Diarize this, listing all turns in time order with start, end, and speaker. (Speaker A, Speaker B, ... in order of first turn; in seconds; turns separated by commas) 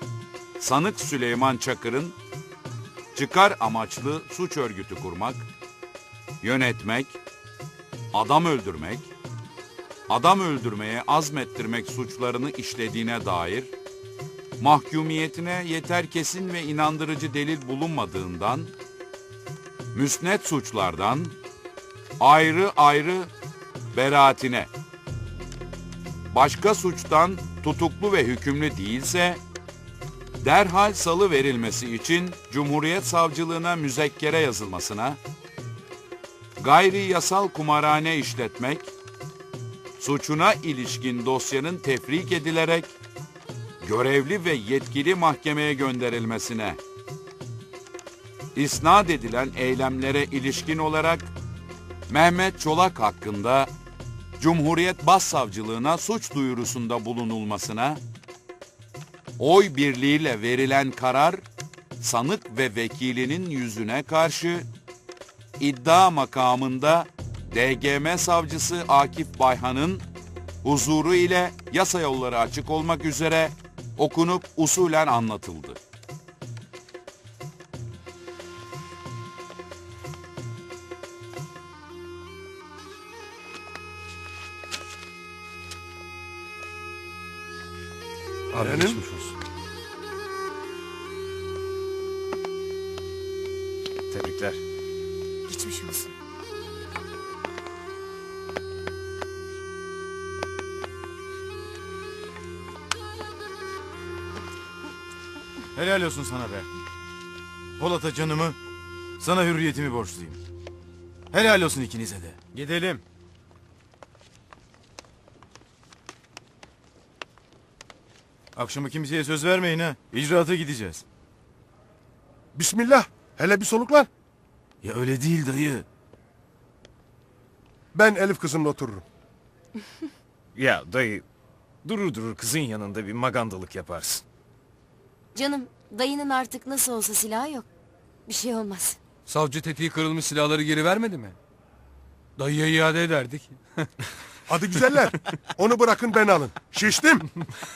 Speaker A: 0.6-2.1, Speaker A: 3.1-5.5, Speaker A: 6.4-7.2, Speaker A: 8.1-9.1, Speaker A: 10.1-13.7, Speaker A: 14.6-18.7, Speaker A: 19.9-21.3, Speaker A: 22.2-23.3, Speaker A: 23.9-24.7, Speaker A: 26.3-29.4, Speaker A: 30.4-35.2, Speaker A: 36.6-38.9, Speaker A: 40.0-42.9, Speaker A: 43.8-46.8, Speaker A: 48.5-51.3, Speaker A: 52.1-53.7, Speaker A: 54.4-58.0, Speaker A: 59.4-61.4, Speaker A: 62.0-64.7, Speaker A: 65.6-70.0, Speaker A: 70.6-75.8, Speaker B: 88.5-89.3, Speaker C: 88.6-89.0, Speaker D: 94.1-94.6, Speaker E: 95.5-96.1, Speaker F: 105.8-106.7, Speaker F: 107.8-108.6, Speaker F: 109.2-110.4, Speaker F: 111.3-113.0, Speaker F: 118.5-121.0, Speaker C: 122.5-124.1, Speaker F: 124.8-125.8, Speaker C: 127.9-129.0, Speaker D: 130.5-131.2, Speaker D: 131.8-134.2, Speaker E: 135.3-137.7, Speaker E: 138.3-139.0, Speaker B: 139.3-141.3, Speaker B: 142.4-143.6, Speaker C: 144.5-147.3